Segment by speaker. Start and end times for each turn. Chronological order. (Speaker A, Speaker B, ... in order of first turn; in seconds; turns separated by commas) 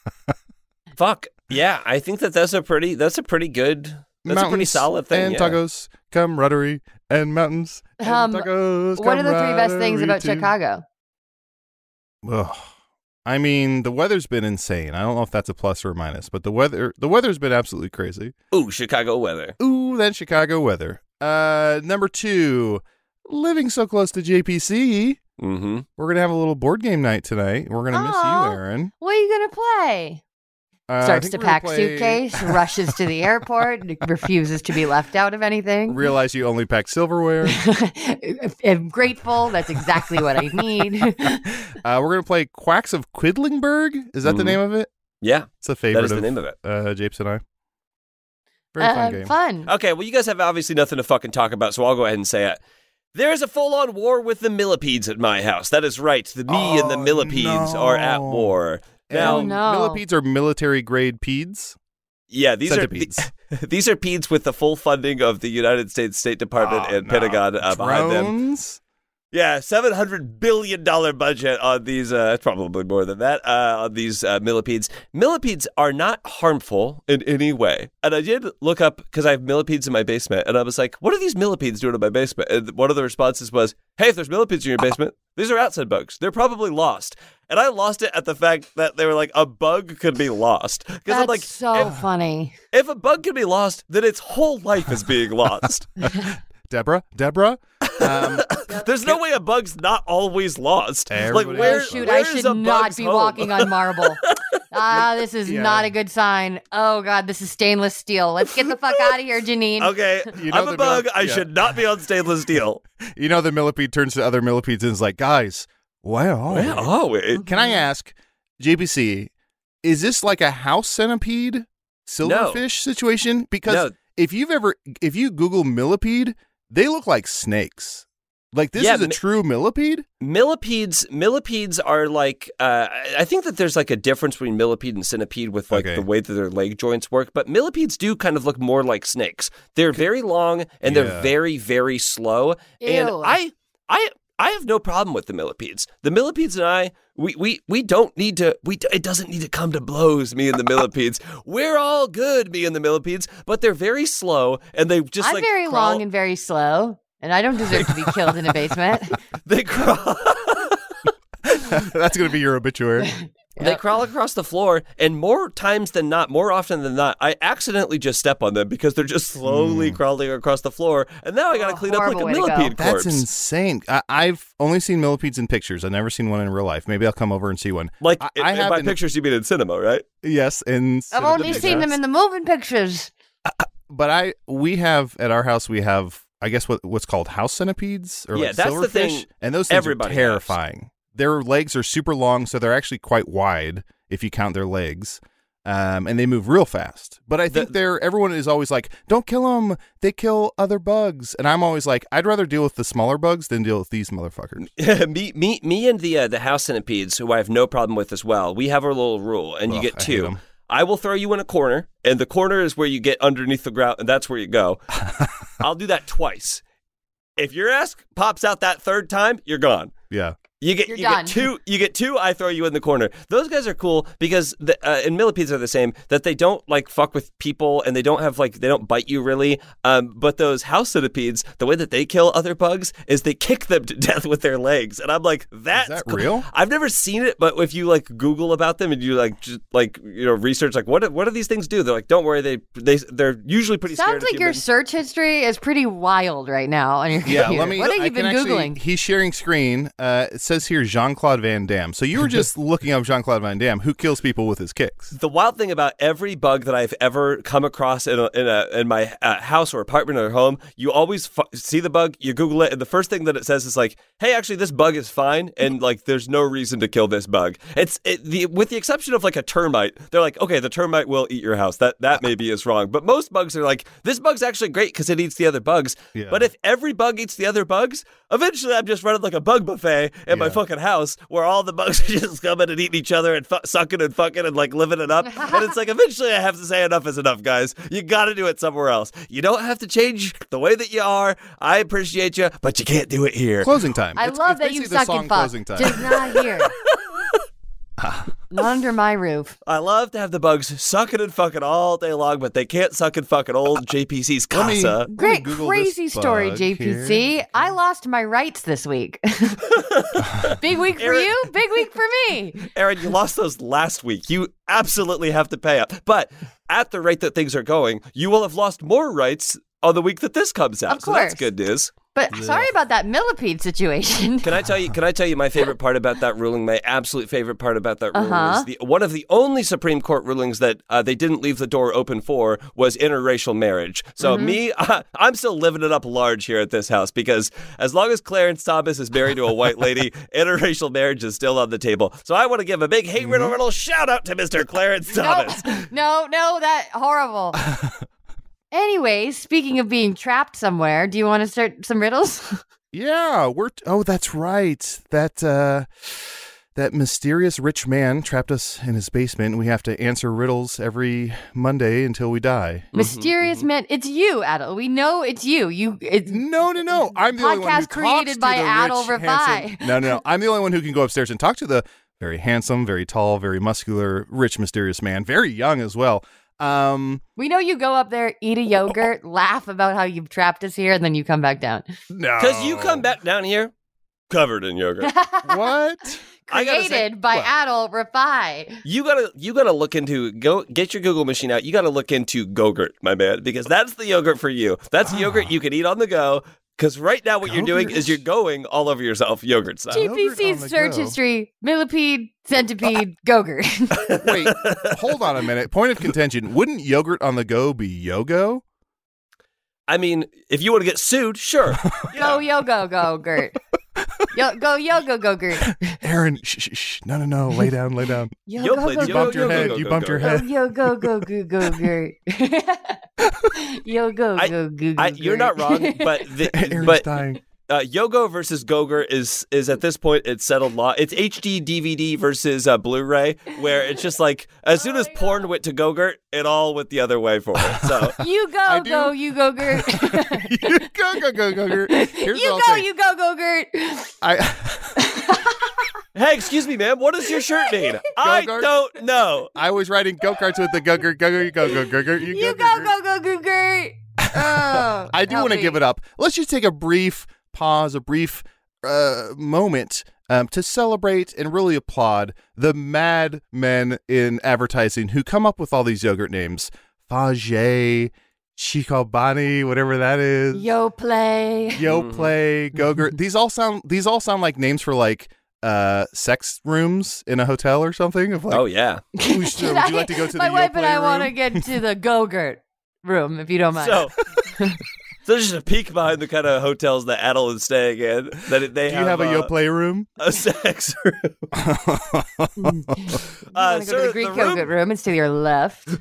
Speaker A: 1.0-5.6, Speaker B: 4.2-10.5, Speaker C: 8.0-10.8, Speaker B: 12.2-12.7, Speaker B: 13.2-18.3, Speaker A: 18.5-19.6, Speaker B: 19.6-25.2, Speaker A: 25.4-25.9, Speaker B: 26.0-28.9, Speaker C: 27.9-30.2, Speaker B: 30.9-33.0, Speaker C: 31.0-36.0, Speaker B: 35.9-37.6, Speaker C: 37.5-41.5, Speaker B: 41.5-44.9, Speaker A: 44.2-44.6, Speaker A: 45.2-46.6, Speaker B: 45.6-47.4, Speaker B: 48.7-49.3, Speaker C: 48.8-49.7, Speaker A: 49.7-52.6, Speaker A: 53.1-59.5, Speaker B: 56.5-58.6, Speaker B: 59.1-61.8, Speaker C: 59.1-60.0, Speaker A: 62.3-68.3, Speaker B: 62.7-63.3, Speaker B: 66.6-68.8, Speaker A: 69.3-91.9, Speaker C: 91.1-92.5, Speaker A: 92.7-95.9, Speaker B: 96.1-99.2, Speaker A: 97.8-104.3, Speaker B: 101.1-102.1, Speaker C: 101.5-104.2, Speaker C: 104.7-110.0, Speaker B: 104.9-105.9, Speaker A: 109.8-112.8, Speaker B: 110.3-111.7, Speaker B: 113.1-119.3, Speaker A: 116.5-117.5, Speaker B: 119.8-130.1, Speaker A: 122.2-122.6, Speaker A: 123.7-124.0, Speaker A: 128.8-129.2, Speaker A: 130.2-156.0, Speaker B: 135.7-136.1, Speaker B: 140.8-141.3, Speaker C: 142.8-143.4, Speaker C: 155.2-159.1, Speaker A: 159.4-160.8, Speaker B: 161.4-163.1, Speaker C: 163.0-163.8, Speaker A: 163.6-173.2, Speaker B: 169.4-170.0, Speaker C: 171.5-172.7, Speaker B: 172.8-179.0, Speaker A: 178.0-180.1, Speaker B: 180.2-182.0, Speaker C: 181.1-183.1, Speaker A: 181.4-181.9, Speaker B: 183.5-204.7, Speaker A: 188.3-190.6, Speaker A: 204.8-214.9, Speaker B: 209.7-210.4, Speaker A: 215.6-216.6, Speaker A: 217.4-219.9, Speaker B: 220.1-220.4, Speaker A: 220.6-244.6, Speaker C: 220.9-221.5, Speaker B: 235.7-236.5, Speaker C: 243.9-248.8, Speaker B: 247.2-255.1, Speaker A: 255.1-293.8, Speaker B: 276.1-276.5, Speaker B: 280.3-280.6, Speaker C: 285.2-285.7, Speaker B: 293.6-296.0, Speaker C: 294.2-296.7, Speaker A: 295.9-297.4, Speaker B: 298.0-298.3, Speaker C: 298.5-299.6, Speaker A: 299.7-305.1, Speaker B: 304.5-307.4, Speaker C: 305.1-309.6, Speaker A: 309.8-311.8, Speaker C: 310.5-312.6, Speaker A: 312.6-321.9, Speaker C: 320.9-321.5, Speaker C: 322.1-324.5, Speaker B: 322.3-322.7, Speaker A: 324.4-345.9, Speaker C: 328.1-328.7, Speaker C: 334.2-334.6, Speaker B: 343.2-343.6, Speaker C: 345.1-347.6, Speaker B: 347.6-348.0, Speaker C: 348.7-352.6, Speaker B: 352.9-362.9, Speaker A: 362.9-363.6, Speaker C: 362.9-366.4, Speaker B: 366.3-377.2, Speaker C: 367.1-370.2, Speaker C: 377.4-381.9, Speaker B: 382.1-383.1, Speaker A: 382.4-383.7, Speaker A: 384.3-385.1, Speaker C: 385.0-385.7, Speaker B: 385.4-386.2, Speaker C: 386.5-388.8, Speaker A: 386.5-387.4, Speaker A: 388.9-400.1, Speaker B: 395.1-395.5, Speaker B: 397.4-398.2, Speaker B: 399.9-401.2, Speaker C: 399.9-404.1, Speaker A: 404.0-405.0, Speaker B: 404.2-408.6, Speaker A: 409.9-412.4, Speaker C: 412.1-413.6, Speaker C: 414.3-416.0, Speaker B: 415.9-418.4, Speaker C: 418.5-423.0, Speaker A: 418.6-420.4, Speaker B: 419.0-421.2, Speaker B: 423.2-423.5, Speaker C: 423.6-426.2, Speaker A: 424.4-427.1, Speaker B: 426.5-427.4, Speaker A: 427.7-438.2, Speaker C: 434.8-435.3, Speaker B: 437.7-438.1, Speaker C: 438.2-440.8, Speaker B: 438.7-442.9, Speaker C: 441.6-444.1, Speaker B: 444.2-445.0, Speaker C: 445.0-445.9, Speaker A: 446.1-449.5, Speaker B: 448.2-448.7, Speaker B: 449.5-452.9, Speaker C: 452.3-455.8, Speaker B: 454.3-470.7, Speaker C: 470.5-471.8, Speaker B: 471.8-478.7, Speaker A: 471.9-472.3, Speaker A: 478.5-479.0, Speaker C: 479.2-484.8, Speaker B: 479.2-481.7, Speaker A: 483.8-484.2, Speaker A: 485.2-489.5, Speaker B: 488.9-490.1, Speaker A: 490.2-491.4, Speaker B: 491.6-493.2, Speaker C: 492.6-495.9, Speaker A: 493.5-494.7